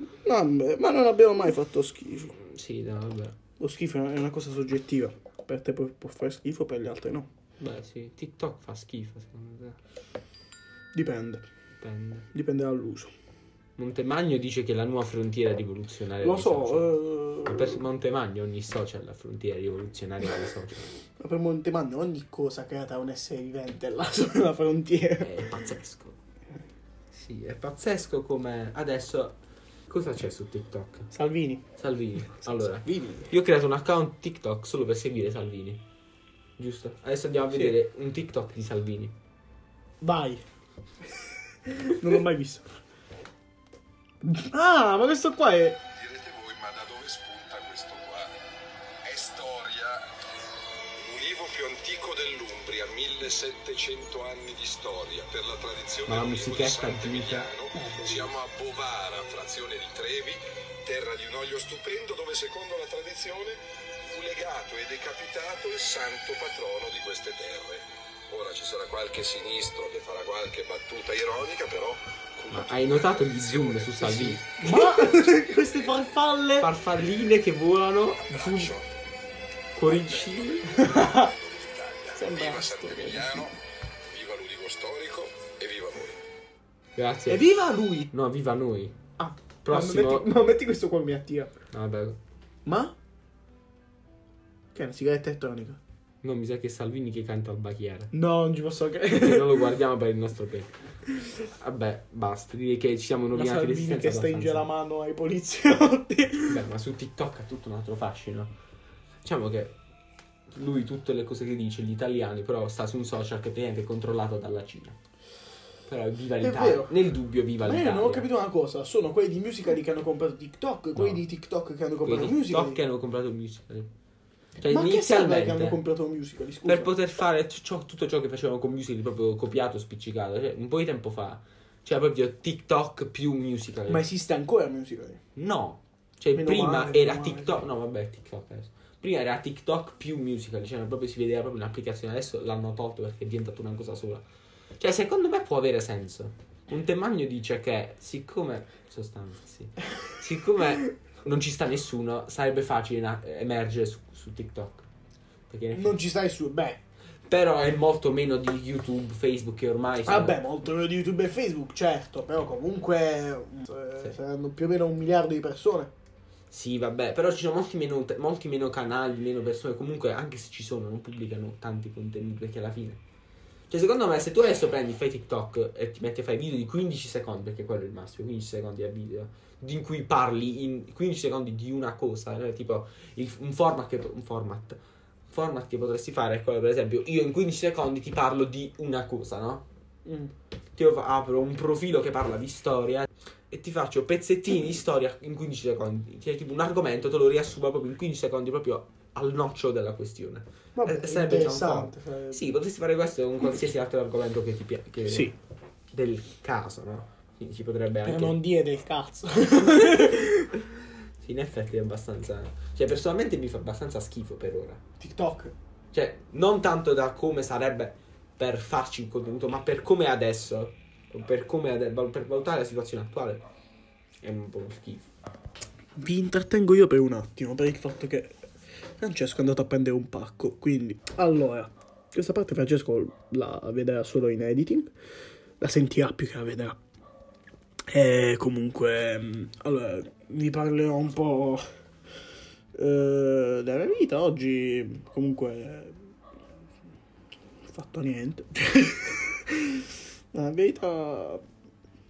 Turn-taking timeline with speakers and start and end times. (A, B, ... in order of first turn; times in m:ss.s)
0:00.2-0:02.4 A
0:02.4-0:03.4 B
0:03.6-0:07.3 A
0:07.6-0:09.8 B
0:10.9-0:11.5 A
0:11.8-0:12.2 B
0:12.3-0:13.1 A
0:13.8-0:16.9 B
0:16.2-0:17.8 A
0:17.4-0:20.9 B
0:21.2-0:25.4 A
0:25.2-0:26.2 B
0:27.1-0:29.4 B
0:29.9-0:31.1 B
0:31.1-0:31.6 A
0:31.8-0:35.8 B
0:32.4-0:33.3 A
0:36.6-0:39.1 B
0:40.0-0:40.4 A
0:41.7-0:42.6 A
0:44.2-0:45.8 A
0:45.9-0:48.4 C
0:49.0-0:50.1 C
0:51.0-1:16.0 C
0:56.0-0:57.5 B
0:57.7-0:58.2 A
1:12.5-1:14.8 B
1:14.2-1:16.7 A
1:16.6-1:18.8 B
1:18.3-1:18.9 C
1:19.8-1:20.8 B
1:19.8-1:23.6 C
1:20.8-1:21.3 A
1:22.1-1:23.5 A
1:24.1-1:26.2 C
1:27.0-1:27.5 B
1:27.3-1:28.1 A
1:28.1-1:29.0 B
1:29.2-1:31.5 A
1:29.6-1:30.3 B
1:31.7-1:32.2 B
1:32.6-1:32.9 A
1:34.7-1:35.8 A
1:36.2-1:38.1 B
1:38.1-1:39.6 A
1:39.1-1:40.7 B
1:41.5-1:44.6 B
1:43.3-1:46.6 A
1:46.5-1:48.5 B
1:49.2-1:49.8 B
1:50.5-1:55.0 B
1:55.9-1:58.3 B
1:56.4-1:56.9 A
1:57.6-2:02.8 A
2:01.0-2:01.2 B
2:02.0-2:03.9 B
2:04.6-2:05.8 B
2:04.7-2:06.9 A
2:06.6-2:14.0 B
2:13.9-2:15.2 A
2:15.4-2:24.2 B
2:16.3-2:17.6 A
2:24.8-2:34.8 B
2:35.5-2:36.0 B
2:35.7-2:36.8 A
2:37.3-2:40.4 B
2:40.0-2:45.9 A
2:46.5-2:53.0 B
2:53.7-3:09.6 B
3:10.0-3:10.3 A
3:10.8-3:25.3 B
3:20.8-3:22.5 A
3:25.1-3:25.3 A
3:25.9-3:28.4 B
3:28.0-3:30.5 A
3:29.6-3:30.0 B
3:31.2-3:34.8 B
3:35.0-3:35.5 A
3:35.9-3:43.4 B
3:44.2-3:45.1 B
3:46.0-3:48.3 A
3:49.0-3:54.9 A
3:55.6-3:56.8 A
3:57.9-4:01.6 A
4:02.8-4:06.0 A
4:07.7-4:11.4 A